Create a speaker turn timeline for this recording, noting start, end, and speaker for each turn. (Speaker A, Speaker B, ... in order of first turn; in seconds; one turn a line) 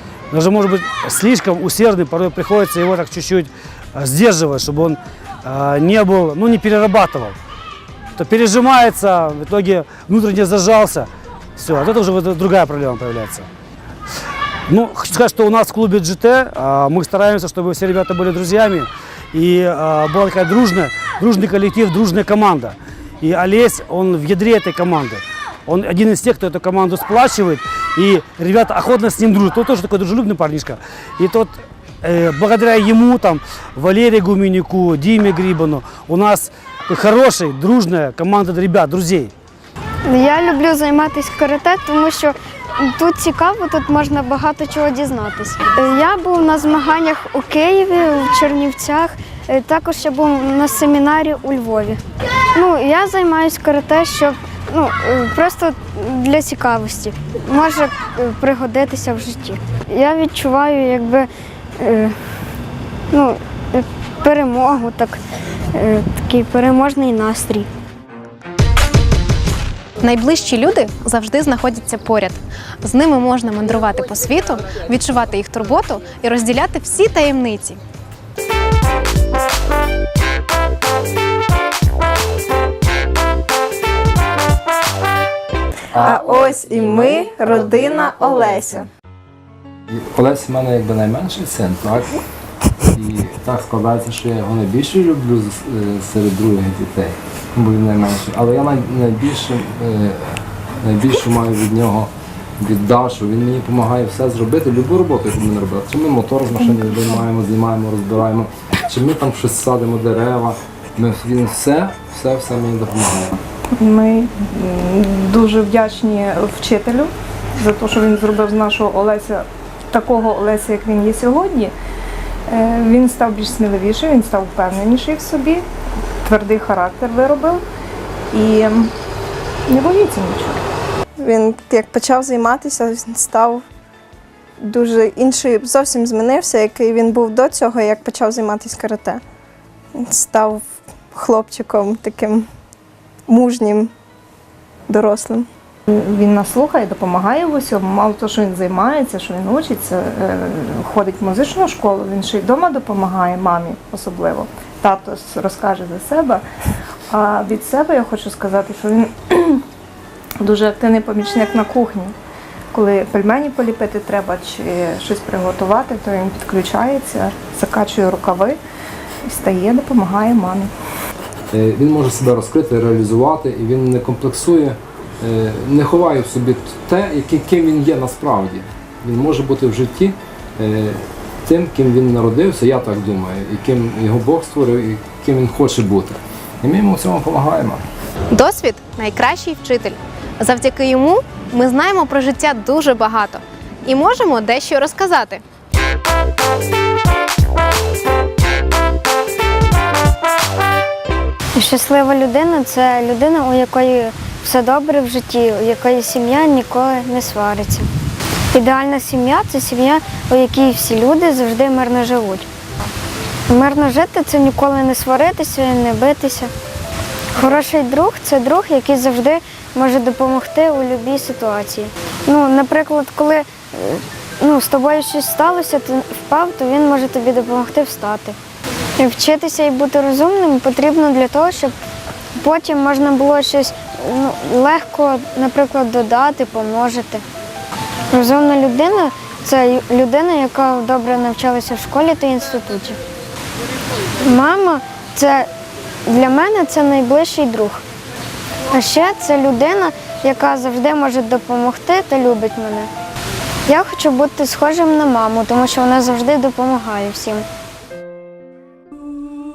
Speaker A: 0.3-7.3
Speaker A: 8.2-13.5
Speaker A: 14.7-39.3
Speaker B: 40.1-52.0
Speaker B: 52.5-62.2
Speaker B: 63.1-65.2
Speaker B: 65.7-67.7
Speaker C: 70.0-77.8
Speaker D: 85.9-88.6
Speaker E: 85.9-88.9
Speaker D: 89.9-92.1
Speaker D: 92.9-113.4
Speaker F: 106.6-107.2
Speaker F: 113.8-121.7
Speaker F: 122.5-125.6
Speaker F: 126.2-127.6
Speaker F: 128.3-128.9
Speaker F: 129.7-130.6
Speaker E: 131.2-133.6
Speaker E: 134.6-139.2
Speaker E: 139.9-142.5
Speaker E: 143.3-143.9
Speaker E: 144.9-145.5
Speaker F: 145.9-156.4
Speaker F: 157.1-159.6
Speaker F: 160.4-162.1
Speaker F: 162.7-168.6
Speaker F: 169.2-170.7
Speaker D: 171.5-187.8
Speaker C: 188.3-195.4
Speaker B: 201.6-207.9
Speaker B: 208.5-212.5
Speaker B: 213.5-216.5
Speaker B: 217.3-228.4
Speaker B: 229.0-231.7
Speaker B: 232.4-237.2
Speaker B: 238.1-243.0
Speaker B: 244.2-245.5
Speaker B: 246.1-247.8
Speaker B: 248.7-252.9
Speaker B: 253.7-257.4